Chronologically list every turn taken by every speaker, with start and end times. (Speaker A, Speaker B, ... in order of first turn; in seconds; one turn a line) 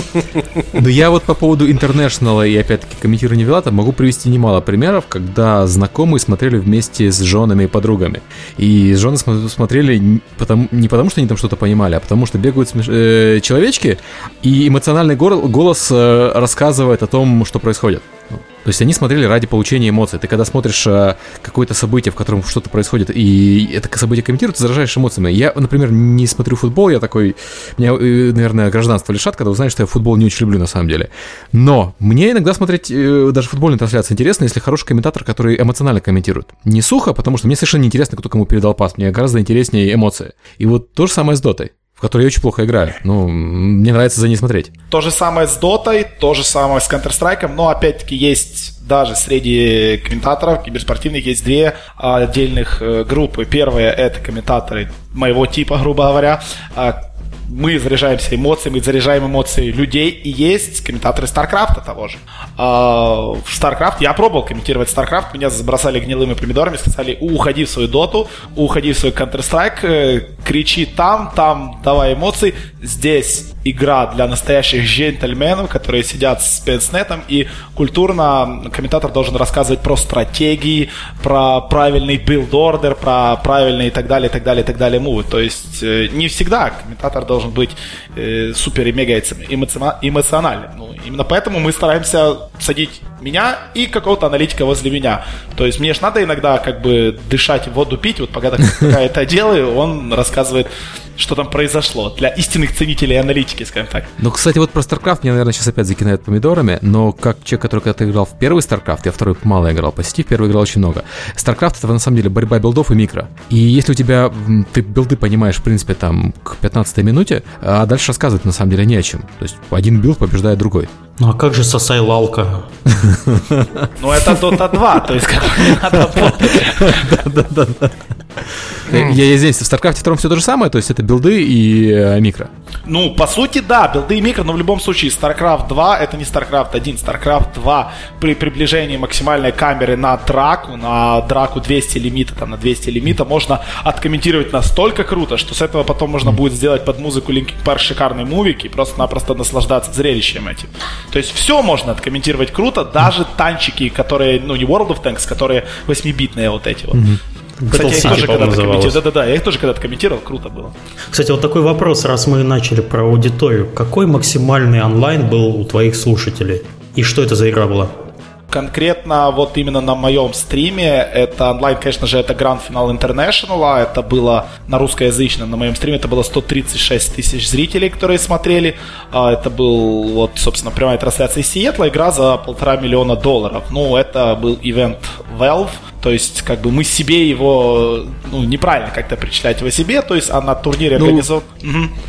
Speaker A: 0.7-44.7
Speaker B: 44.9-104.1
Speaker A: 104.2-120.9
Speaker C: 121.2-122.7
Speaker A: 122.9-124.6
Speaker B: 124.0-127.2
Speaker A: 125.8-132.5
Speaker B: 132.9-157.1
Speaker A: 156.9-157.2
Speaker C: 157.6-159.0
Speaker B: 157.7-160.7
Speaker C: 161.1-167.9
Speaker B: 168.5-191.9
Speaker A: 191.0-191.2